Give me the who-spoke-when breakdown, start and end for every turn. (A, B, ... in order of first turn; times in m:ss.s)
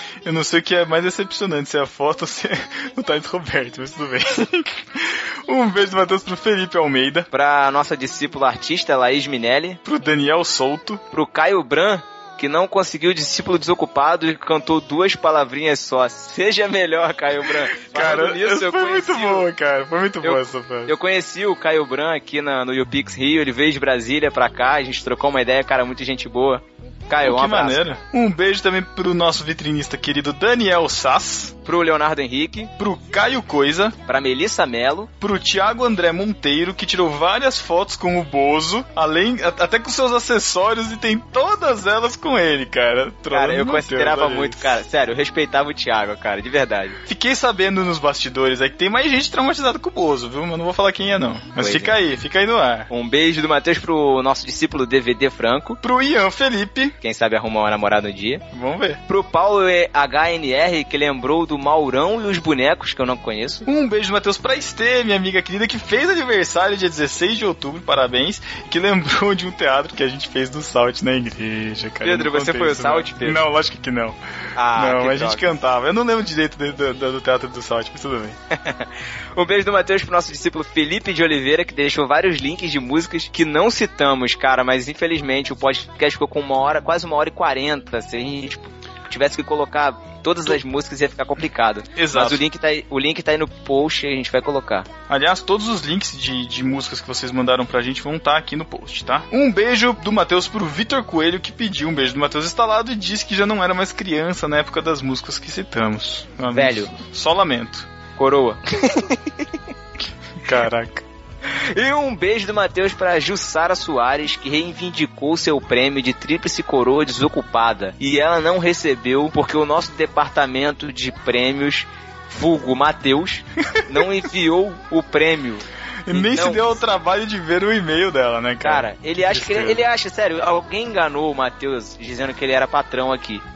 0:00.2-0:07.3 A
0:07.3-0:09.8 B
0:09.8-0:11.0 A
0:11.1-0:19.4 B
0:17.8-0:20.9 A
0:20.2-0:27.8 B
0:27.2-0:31.5 A
0:31.6-0:32.7 B
0:32.8-0:34.0 A
0:34.1-0:35.1 B
0:35.2-0:44.8 A
0:43.3-0:47.0 B
0:47.1-0:52.9 A
0:51.6-0:51.9 B
0:52.9-0:55.8 B
0:55.8-0:56.9 A
0:57.0-0:58.4 B
0:58.5-0:59.0 A
0:59.1-1:03.6 B
1:03.6-1:14.2 A
1:12.0-1:13.4 B
1:14.6-1:15.4 B
1:14.8-1:18.4 A
1:18.6-1:34.9 B
1:31.9-1:32.4 A
1:35.1-1:47.9 A
1:46.5-1:46.9 B
1:48.2-1:49.4 B
1:50.4-1:51.0 A
1:51.5-2:06.7 B
2:06.1-2:09.8 A
2:08.6-2:13.4 B